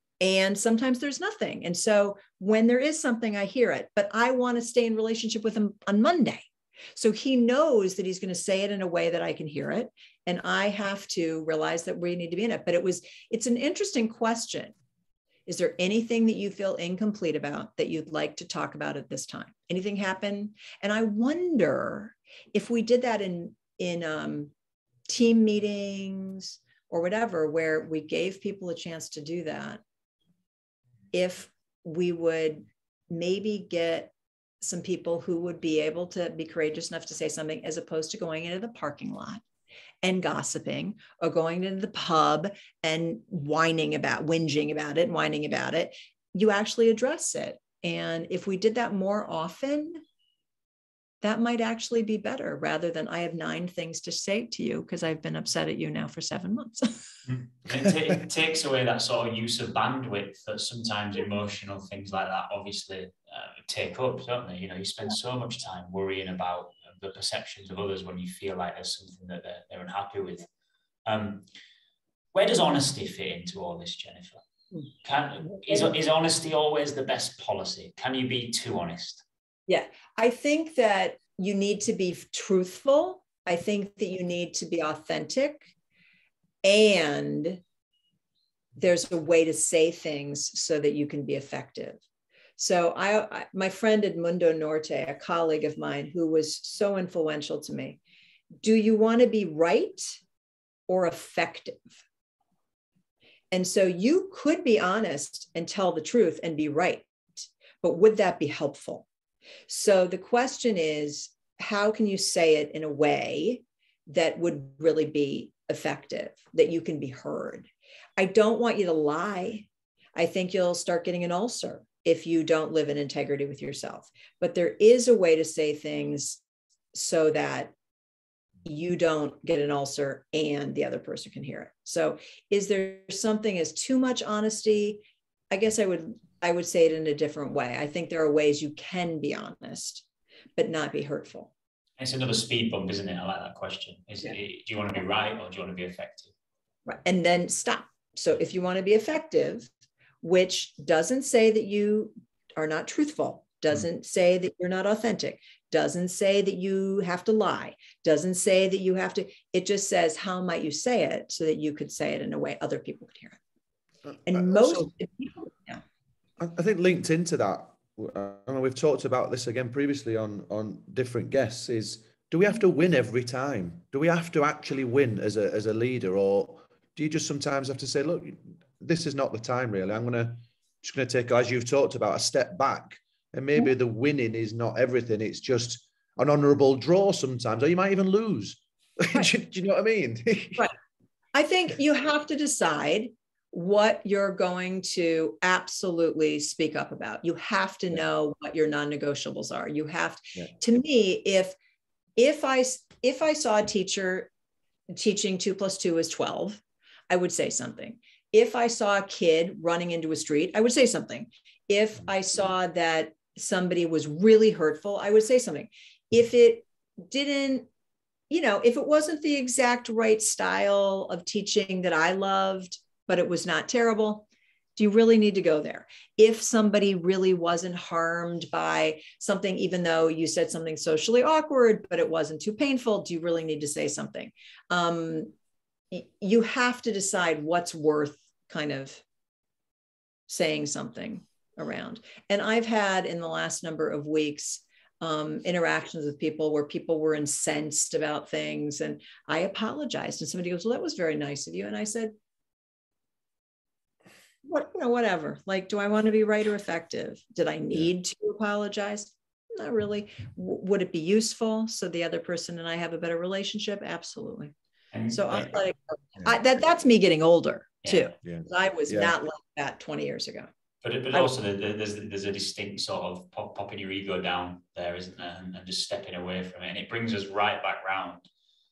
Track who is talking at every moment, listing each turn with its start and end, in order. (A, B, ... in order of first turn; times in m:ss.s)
0:00.2-0:14.7 A
0:15.5-0:24.5 A
0:25.1-0:29.8 A
0:31.1-0:39.4 A
0:40.0-0:50.0 A
0:51.2-0:57.0 A
0:57.3-1:10.5 B
1:11.1-1:11.5 B
1:12.3-1:14.4 B
1:15.0-1:19.2 B
1:19.7-1:25.7 A
1:26.6-1:27.6 A
1:28.8-1:32.0 A
1:32.6-1:38.0 A
1:38.6-1:40.2 A
1:40.9-1:41.9 A
1:43.5-1:49.1 A
1:49.7-2:06.4 A
2:06.9-2:07.7 A
2:08.6-2:20.0 A
2:20.6-2:21.5 A
2:22.0-2:26.3 B
2:26.9-2:29.7 A
2:30.2-2:43.4 A
2:44.3-2:45.8 A
2:44.3-2:44.9 C
2:46.4-3:10.6 C
3:11.3-3:21.6 A
3:22.2-3:24.3 A
3:24.9-3:37.7 A
3:38.3-3:55.3 A
3:55.9-3:59.0 A
4:00.3-4:12.1 A
4:14.4-4:24.5 A
4:24.9-4:25.5 B
4:25.1-4:30.5 A
4:28.2-4:29.2 C
4:30.8-4:38.3 B